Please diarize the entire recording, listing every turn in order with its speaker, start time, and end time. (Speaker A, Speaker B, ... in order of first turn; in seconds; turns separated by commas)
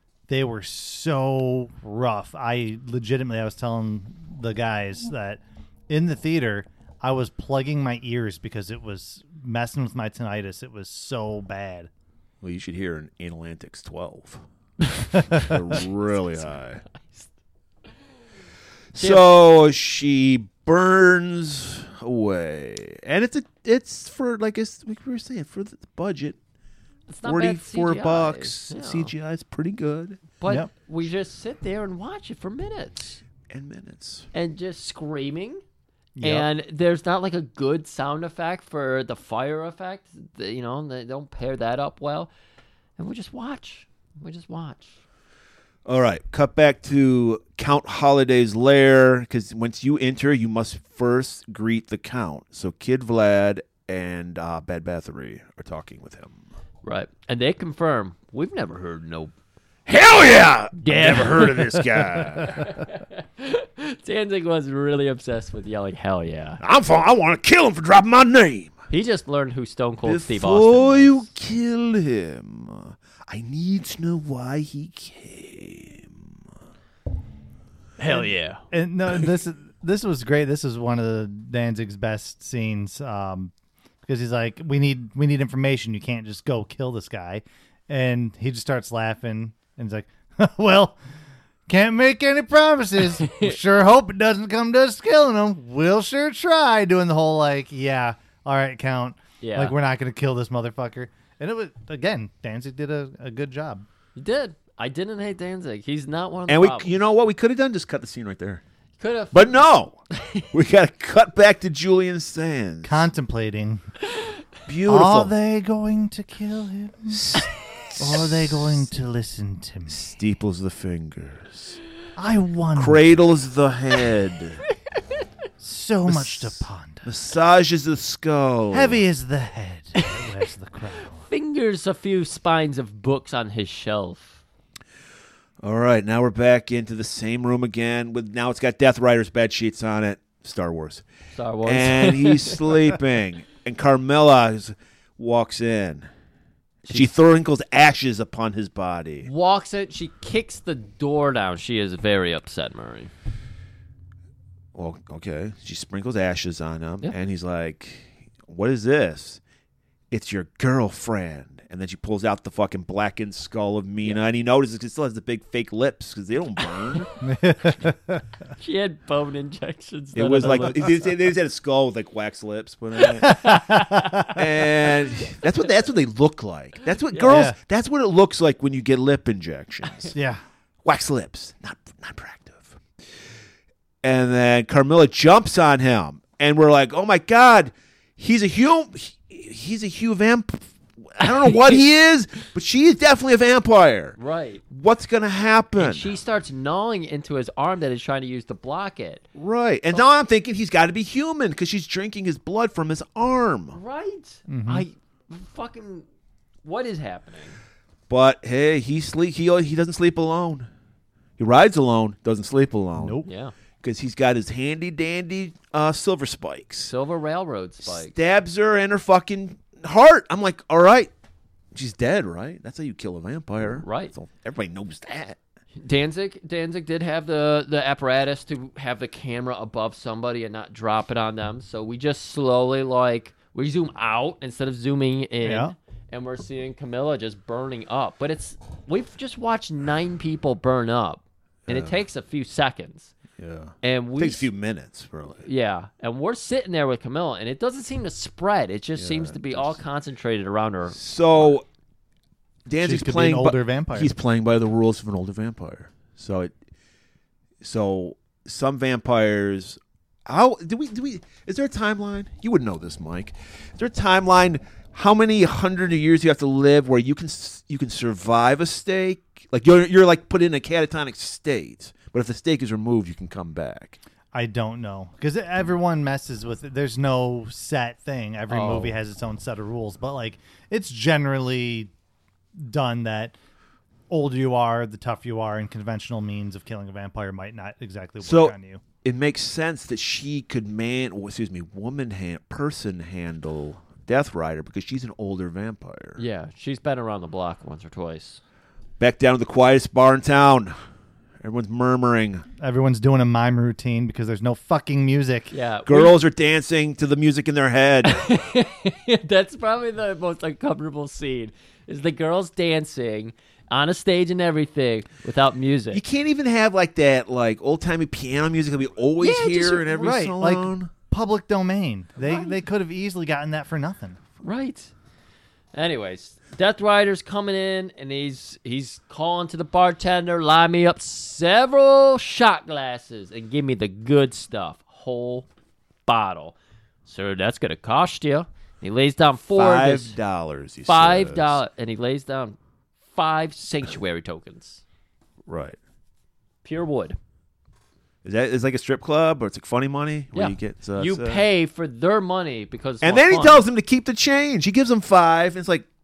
Speaker A: 0.3-11.9, Speaker B: 12.4-14.4, Speaker B: 15.1-16.8, Speaker C: 16.3-17.3, Speaker B: 18.9-26.4, Speaker C: 19.0-19.2, Speaker C: 27.1-29.1, Speaker B: 27.2-30.2, Speaker C: 30.4-33.2, Speaker B: 33.5-34.3, Speaker C: 34.3-35.6, Speaker A: 36.2-36.5, Speaker C: 36.2-42.3, Speaker C: 43.0-45.0, Speaker B: 45.9-56.4, Speaker C: 56.8-59.3, Speaker B: 59.9-62.7, Speaker C: 60.8-61.8, Speaker C: 62.6-66.6, Speaker B: 66.6-68.7, Speaker C: 68.9-71.3, Speaker B: 70.0-76.3, Speaker C: 78.0-78.6, Speaker A: 78.1-83.5, Speaker A: 84.0-91.0, Speaker A: 91.7-103.9, Speaker C: 93.2-93.5, Speaker C: 99.4-99.8, Speaker C: 104.2-106.9, Speaker B: 106.5-108.6, Speaker C: 109.0-109.6, Speaker B: 109.3-110.0, Speaker B: 110.5-113.1, Speaker A: 112.8-113.8, Speaker B: 114.7-115.3, Speaker A: 114.9-117.5, Speaker B: 117.1-118.8, Speaker A: 118.0-120.0, Speaker B: 119.9-121.8, Speaker A: 122.2-123.1, Speaker B: 122.8-124.6, Speaker A: 125.6-127.1, Speaker B: 126.1-129.0, Speaker A: 128.7-131.2, Speaker C: 130.0-130.2, Speaker C: 131.2-134.4, Speaker B: 135.6-141.0, Speaker C: 141.3-142.6, Speaker B: 141.7-146.1, Speaker B: 146.9-149.3, Speaker C: 149.2-153.1, Speaker B: 154.8-159.4, Speaker B: 160.1-167.1, Speaker A: 167.2-168.2, Speaker C: 168.6-171.1, Speaker B: 170.2-173.5, Speaker A: 170.4-170.9, Speaker C: 173.0-174.3, Speaker A: 173.2-174.4, Speaker B: 174.3-180.1, Speaker A: 177.2-177.6, Speaker A: 180.1-180.4, Speaker B: 180.8-182.8, Speaker B: 184.0-194.2, Speaker C: 194.2-194.6, Speaker B: 194.7-196.2, Speaker C: 195.8-199.2, Speaker B: 199.3-203.8, Speaker C: 203.7-206.1, Speaker A: 204.5-204.9, Speaker C: 206.6-207.6, Speaker B: 208.1-210.7, Speaker B: 211.4-213.2, Speaker A: 213.0-213.3, Speaker C: 213.2-213.5, Speaker B: 213.8-216.9, Speaker C: 216.9-218.1, Speaker B: 217.8-221.1, Speaker B: 221.8-225.4, Speaker C: 223.8-224.1, Speaker C: 225.8-243.1, Speaker A: 235.4-235.8, Speaker B: 241.7-242.0, Speaker B: 243.4-245.5, Speaker C: 243.8-244.5, Speaker C: 245.4-251.6, Speaker B: 249.0-249.8, Speaker B: 250.9-251.6, Speaker B: 252.7-256.5, Speaker A: 252.8-254.1, Speaker B: 257.6-274.0, Speaker A: 274.3-281.9, Speaker C: 278.5-279.0, Speaker A: 282.6-283.4, Speaker A: 284.1-288.8, Speaker B: 288.2-296.2, Speaker C: 296.2-298.4, Speaker B: 299.0-300.8, Speaker B: 301.4-302.4, Speaker A: 302.6-305.5, Speaker C: 305.5-306.1, Speaker B: 305.9-308.3, Speaker C: 308.1-316.0, Speaker B: 315.9-320.9, Speaker C: 319.2-320.1, Speaker A: 319.9-324.2, Speaker C: 324.4-324.9, Speaker C: 325.7-335.5, Speaker C: 336.1-340.1, Speaker B: 339.6-341.6, Speaker C: 340.9-342.6, Speaker C: 343.1-344.8, Speaker B: 345.5-345.8, Speaker C: 346.6-347.2, Speaker B: 348.2-351.4, Speaker C: 350.3-353.6, Speaker B: 353.0-355.9